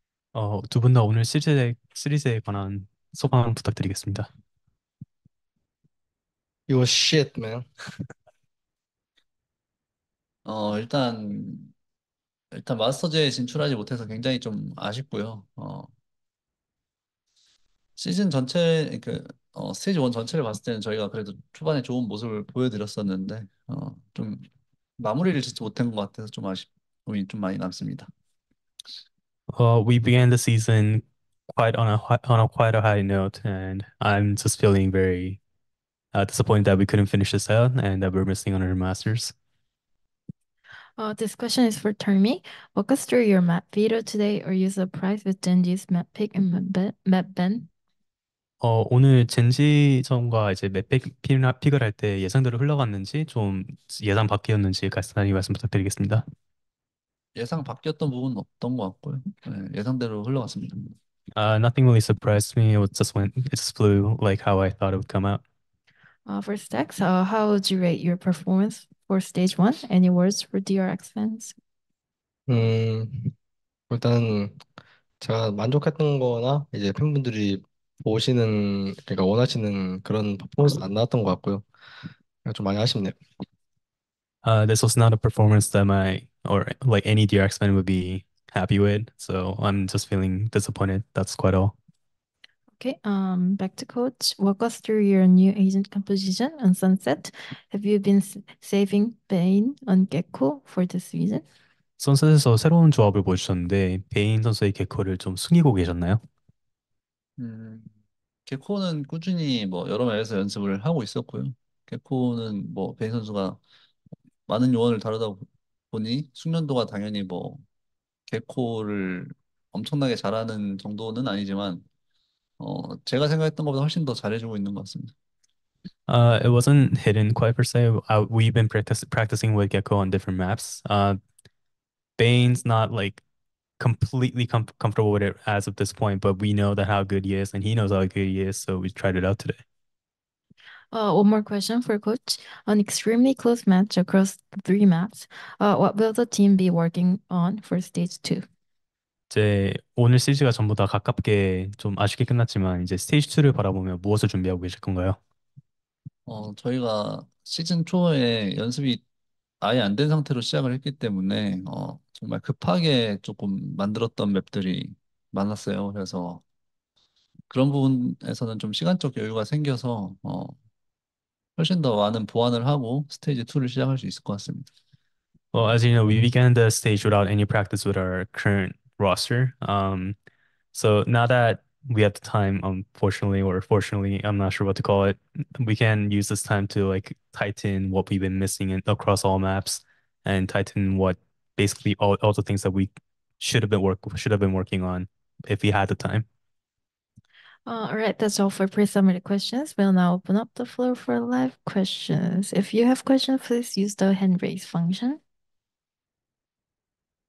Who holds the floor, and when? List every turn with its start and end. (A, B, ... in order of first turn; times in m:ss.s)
0:00.3-0:04.3 A
0:06.7-0:07.7 B
0:10.4-0:11.7 C
0:12.5-0:15.9 C
0:18.0-0:24.4 C
0:25.0-0:28.1 C
0:29.5-0:35.4 A
0:36.1-0:39.3 A
0:41.0-0:47.7 D
0:48.6-0:56.2 A
0:57.4-1:01.0 C
1:01.4-1:05.4 A
1:06.3-1:11.6 D
1:12.5-1:13.3 B
1:13.9-1:14.6 B
1:15.2-1:21.6 B
1:22.4-1:23.2 B
1:24.4-1:31.8 A
1:32.8-1:41.4 D
1:42.0-1:46.2 A
1:47.4-1:47.9 C
1:48.5-1:53.6 C
1:54.5-1:57.6 C
1:58.3-2:01.8 C
2:02.6-2:05.1 C
2:06.1-2:11.2 A
2:12.2-2:13.2 A
2:13.8-2:19.6 A
2:20.9-2:28.4 D
2:29.3-2:35.2 A
2:36.3-2:39.0 C
2:39.6-2:46.4 C
2:47.5-2:50.6 C
2:51.6-2:54.7 C
2:55.5-3:00.2 A
3:00.7-3:16.3 A
3:17.7-3:25.2 D